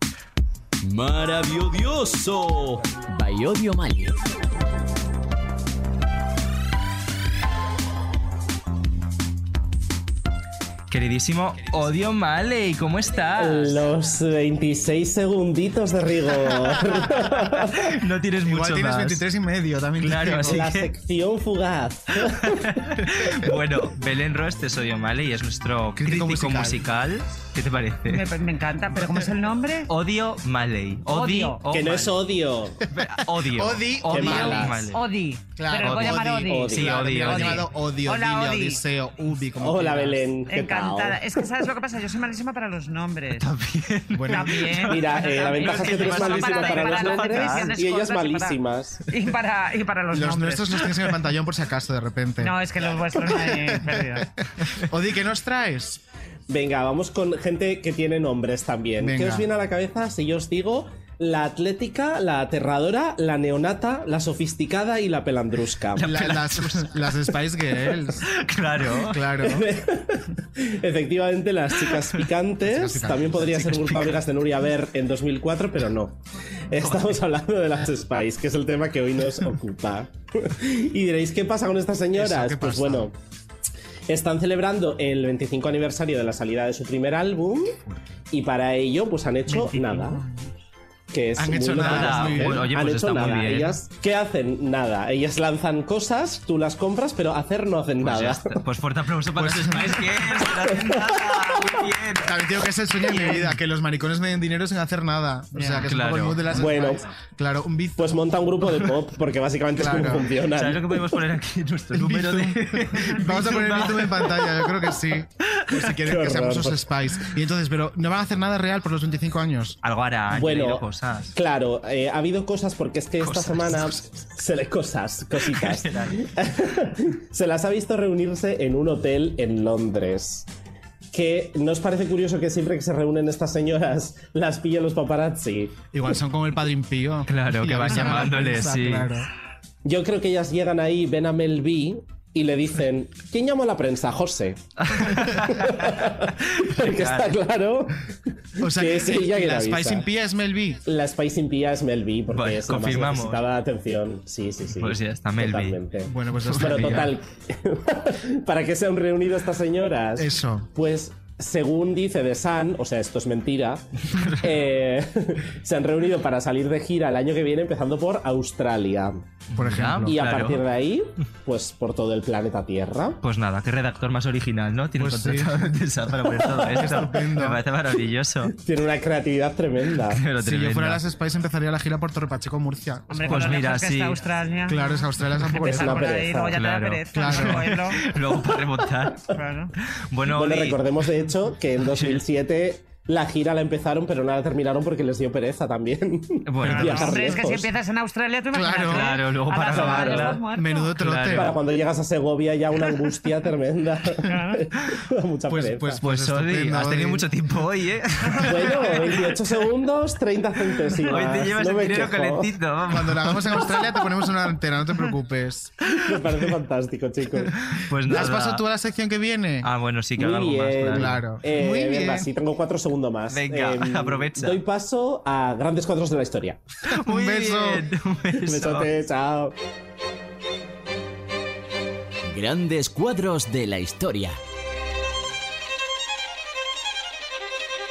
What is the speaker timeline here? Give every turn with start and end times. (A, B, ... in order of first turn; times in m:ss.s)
0:00.8-0:04.2 A
0:10.9-0:13.9 B
0:13.4-0:17.9 C
0:17.6-0:19.2 B
0:18.4-0:20.7 D
0:20.0-0:20.9 B
0:20.3-0:22.7 C
0:22.2-0:28.2 B
0:26.0-0:26.8 D
0:28.1-0:29.9 E
0:29.0-0:29.3 D
0:29.9-0:32.3 B
0:31.1-0:31.6 E
0:31.7-0:32.8 C
0:32.8-0:35.0 B
0:33.3-0:34.7 D
0:34.1-0:34.9 C
0:34.2-0:38.8 E
0:35.6-0:40.2 D
0:35.8-0:37.6 B
0:36.4-0:36.9 C
0:39.6-0:41.5 C
0:40.5-0:43.5 E
0:43.4-0:47.8 B
0:44.1-0:44.7 D
0:44.3-0:50.9 E
0:44.9-0:49.0 C
0:50.1-0:52.6 D
0:52.4-0:54.3 E
0:53.2-0:56.0 D
0:56.5-1:06.2 C
0:59.0-0:59.5 D
1:06.0-1:09.5 B
1:06.0-1:08.2 D
1:09.0-1:09.7 D
1:09.4-1:23.1 C
1:11.7-1:12.3 B
1:12.6-1:13.8 D
1:13.3-1:14.2 B
1:16.8-1:17.2 B
1:22.1-1:23.1 D
1:24.1-1:27.8 C
1:28.3-1:30.2 C
1:29.5-1:30.5 E
1:31.1-1:38.6 C
1:31.4-1:32.7 D
1:31.7-1:33.8 B
1:38.0-1:42.4 B
1:39.4-1:40.1 D
1:40.6-1:41.1 C
1:42.2-1:48.3 D
1:43.1-1:43.5 B
1:45.6-1:45.9 E
1:45.8-1:46.5 B
1:46.5-1:47.0 C
1:48.0-1:51.2 C
1:48.7-1:49.0 B
1:49.8-1:50.3 D
1:50.5-1:54.9 B
1:51.9-1:59.8 D
1:55.5-1:56.0 B
1:56.0-1:56.8 C
1:59.8-2:01.4 B
2:00.3-2:10.5 C
2:03.2-2:04.1 B
2:05.4-2:06.3 B
2:11.1-2:15.9 C
2:15.9-2:19.3 D
2:17.3-2:19.1 B
2:19.8-2:28.0 C
2:24.8-2:27.4 B
2:28.6-2:30.8 D
2:28.6-2:30.1 C
2:30.9-2:49.2 C
2:32.3-2:33.4 B
2:34.7-2:35.8 B
2:36.1-2:37.1 D
2:36.4-2:37.1 B
2:40.2-2:40.7 D
2:44.0-2:44.6 B
2:49.5-2:50.6 B
2:49.5-2:50.1 D
2:50.0-2:53.2 C
2:53.2-2:58.6 B
2:55.0-2:55.7 D
2:56.4-2:57.6 D
2:58.5-3:00.2 C
3:00.0-3:01.0 B
3:00.4-3:03.5 D
3:03.1-3:08.0 E
3:03.3-3:04.2 B
3:04.7-3:06.1 D
3:05.6-3:06.6 C
3:06.5-3:09.3 B
3:07.1-3:07.8 D
3:09.3-3:09.7 E
3:09.8-3:11.1 B
3:10.3-3:17.7 C
3:11.8-3:12.2 B
3:16.4-3:17.4 B
3:16.6-3:20.9 E
3:18.5-3:19.1 D
3:18.9-3:20.4 B
3:19.8-3:20.4 C
3:20.4-3:21.6 D
3:21.0-3:21.6 B
3:21.3-3:26.0 C
3:24.3-3:24.6 E
3:25.5-3:27.3 D
3:26.0-3:29.6 B
3:28.4-3:32.5 C
3:31.0-3:33.8 B
3:32.9-3:35.7 D
3:36.0-3:36.4 B
3:36.0-3:37.5 C
3:37.5-3:38.6 B
3:38.0-3:39.7 D
3:39.6-3:41.2 B
3:40.2-3:46.6 C
3:40.9-3:42.3 D
3:43.3-3:44.6 B
3:46.9-3:48.9 B
3:47.1-3:47.9 D
3:48.3-3:49.6 C
3:52.2-3:54.4 A